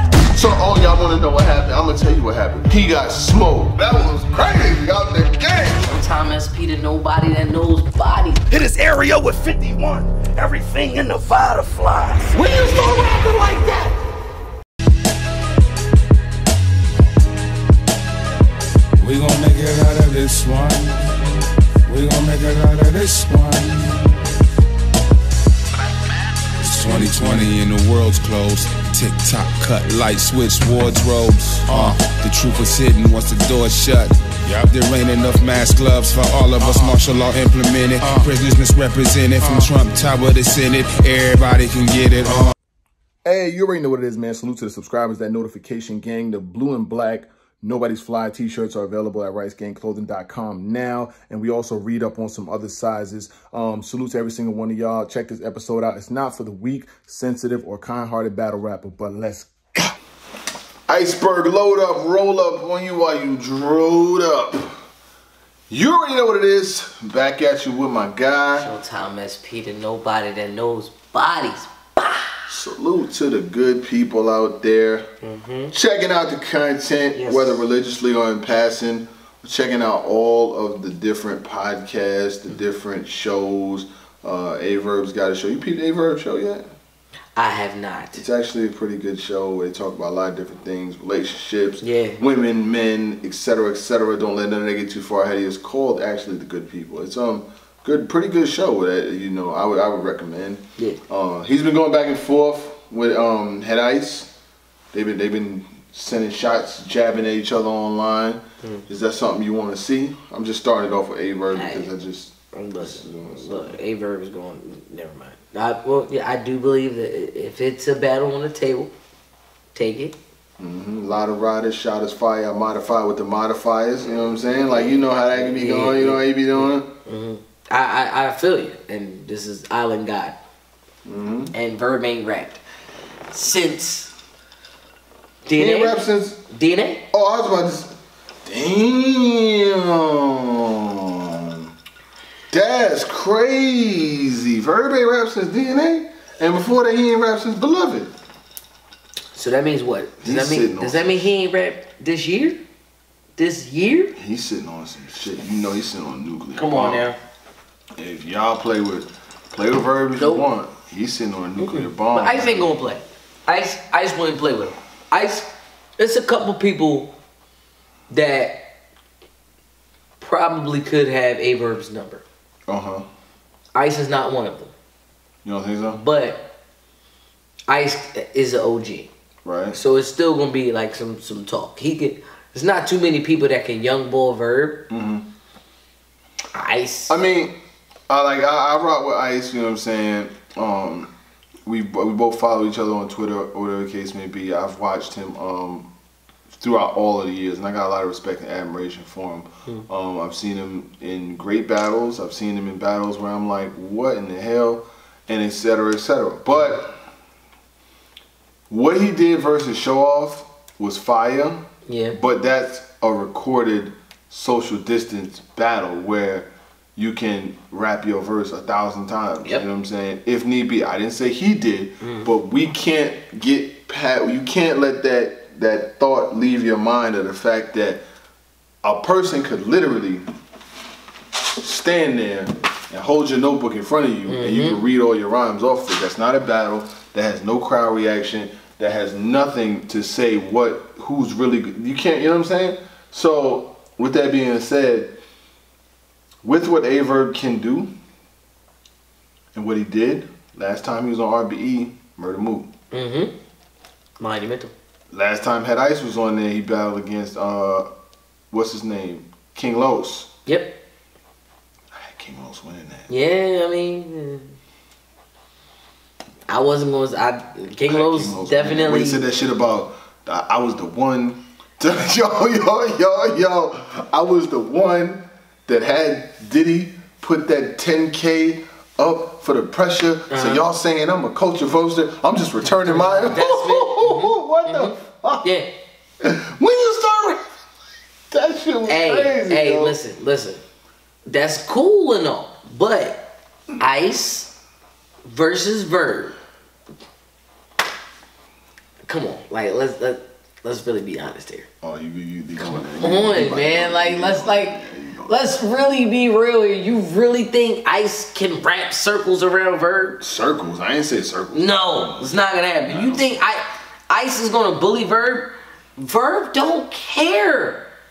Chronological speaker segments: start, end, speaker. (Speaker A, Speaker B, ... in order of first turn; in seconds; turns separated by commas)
Speaker A: 0.3-5.9, Speaker B: 5.8-8.4, Speaker C: 8.5-12.6, Speaker B: 12.3-13.9, Speaker D: 19.0-24.1, Speaker D: 26.6-42.5, Speaker A: 43.2-60.0, Speaker A: 60.9-64.8, Speaker A: 65.7-68.7, Speaker B: 68.6-72.4, Speaker A: 72.5-75.1, Speaker B: 75.2-75.7, Speaker A: 75.7-86.7, Speaker B: 77.1-77.6, Speaker B: 87.3-88.2, Speaker A: 88.1-104.3, Speaker B: 91.8-92.2, Speaker A: 104.9-113.8, Speaker B: 111.5-111.9, Speaker B: 112.5-118.9, Speaker B: 119.7-120.1, Speaker A: 120.6-126.9, Speaker B: 124.7-130.4, Speaker A: 131.1-131.5, Speaker B: 131.5-132.6, Speaker B: 133.3-134.1, Speaker B: 135.5-137.0, Speaker A: 135.6-136.4, Speaker A: 137.1-141.7, Speaker A: 142.5-148.1, Speaker B: 149.3-152.6, Speaker A: 150.2-151.3, Speaker B: 153.4-154.2, Speaker A: 154.2-157.1, Speaker B: 156.6-157.2, Speaker A: 158.0-162.7, Speaker B: 160.2-160.5, Speaker B: 161.6-167.1, Speaker B: 168.1-168.7, Speaker B: 170.2-172.2, Speaker A: 172.7-173.1, Speaker B: 173.8-174.7, Speaker A: 175.4-176.0, Speaker B: 175.9-176.5, Speaker B: 177.7-179.1, Speaker A: 179.4-179.8, Speaker B: 179.7-184.9, Speaker A: 184.9-185.2, Speaker B: 186.5-187.2, Speaker A: 187.1-187.6, Speaker A: 188.1-191.1, Speaker A: 191.7-195.9, Speaker A: 196.5-207.0, Speaker A: 208.7-228.0, Speaker B: 211.9-212.2, Speaker B: 222.0-222.3, Speaker A: 228.8-230.3, Speaker A: 231.6-245.2, Speaker B: 234.2-234.8, Speaker A: 246.4-247.9, Speaker A: 249.5-252.7, Speaker B: 252.9-253.3, Speaker B: 254.2-254.7, Speaker A: 255.1-257.9, Speaker A: 258.5-260.3, Speaker B: 260.4-260.8, Speaker A: 261.9-263.1, Speaker B: 263.1-264.5, Speaker B: 266.5-269.2, Speaker A: 267.9-285.5, Speaker B: 280.3-280.6, Speaker B: 282.8-285.7, Speaker A: 286.2-287.5, Speaker A: 288.3-289.9, Speaker B: 288.9-290.6, Speaker B: 291.2-294.5, Speaker B: 295.2-296.3, Speaker B: 299.1-301.7, Speaker A: 301.8-305.5, Speaker B: 302.6-310.2, Speaker A: 310.2-312.3, Speaker B: 311.5-317.9, Speaker A: 312.8-313.4